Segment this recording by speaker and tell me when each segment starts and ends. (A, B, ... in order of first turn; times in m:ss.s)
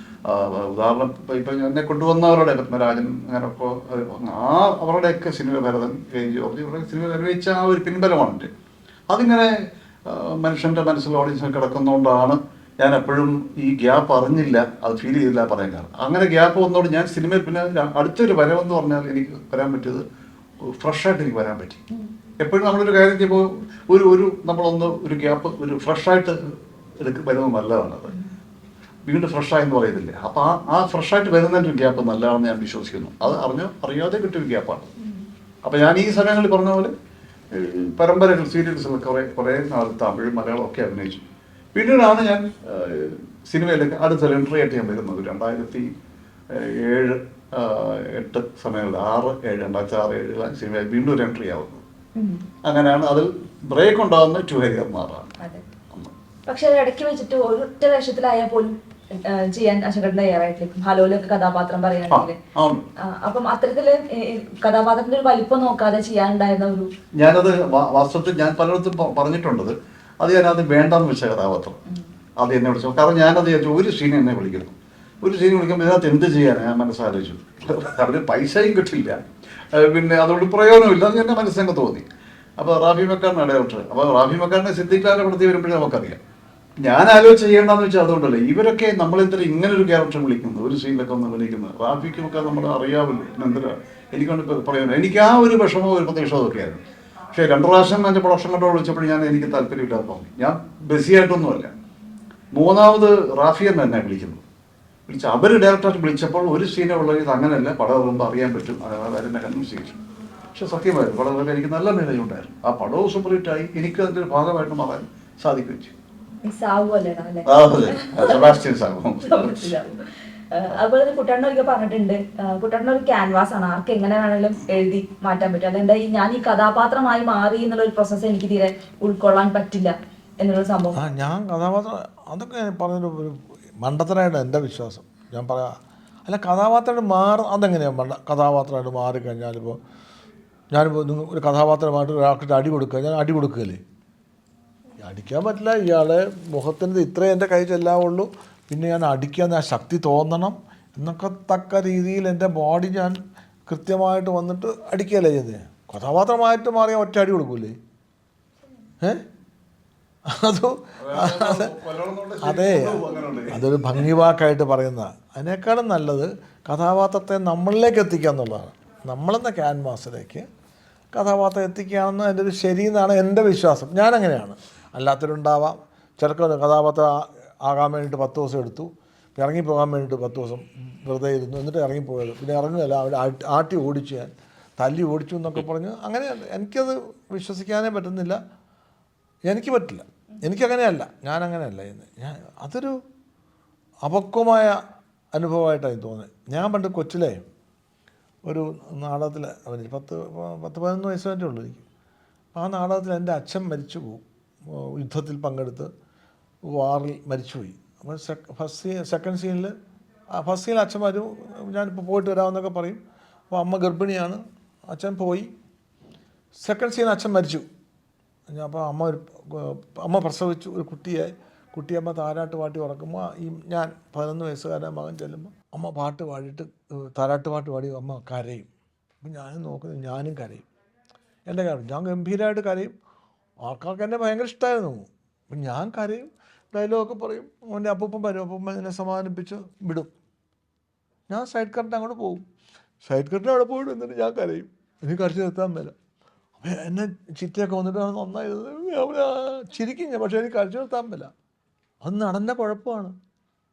0:00.3-0:08.5 A
0:09.1-0:09.5 A
0:10.1-0:20.0 A
0:20.7-0:21.8 A
0:22.4-0:28.1 A
0:29.0-0:34.9 A
0:35.0-0:35.3 B
0:35.6-0:36.9 A
0:37.5-0:41.2 A
0:41.7-0:45.9 A
0:46.5-0:51.8 A
0:52.2-0:52.4 B
0:52.6-0:55.3 A
0:56.5-1:02.4 B
1:02.1-1:02.8 A
1:03.0-1:06.9 B
1:07.2-1:11.8 A
1:12.4-1:19.2 A
1:19.7-1:22.0 A
1:22.6-1:26.2 A
1:26.8-1:41.7 A
1:42.5-1:44.4 A
1:45.1-1:50.0 A
1:50.5-1:55.9 A
1:56.4-1:58.6 B
1:57.4-1:59.7 A
1:59.2-2:00.0 B
2:00.5-2:11.0 B
2:10.9-2:15.7 C
2:16.2-2:19.8 C
2:20.7-2:23.8 C
2:25.0-2:33.2 C
2:33.7-2:37.8 C
2:40.3-2:41.7 C
2:41.0-2:44.2 A
2:42.4-2:50.4 C
2:51.1-3:08.4 C
3:09.5-3:12.9 C
3:14.0-3:14.8 C
3:15.3-3:17.4 C
3:18.5-3:21.8 C
3:22.5-3:25.9 C
3:26.7-3:29.7 C
3:30.3-3:35.5 C
3:36.6-3:37.6 C
3:38.5-3:48.7 C
3:49.2-3:50.6 C
3:51.5-3:52.9 C
3:53.6-4:00.1 C
4:01.3-4:02.4 C
4:03.0-4:05.9 C
4:06.6-4:11.3 C
4:12.0-4:13.1 C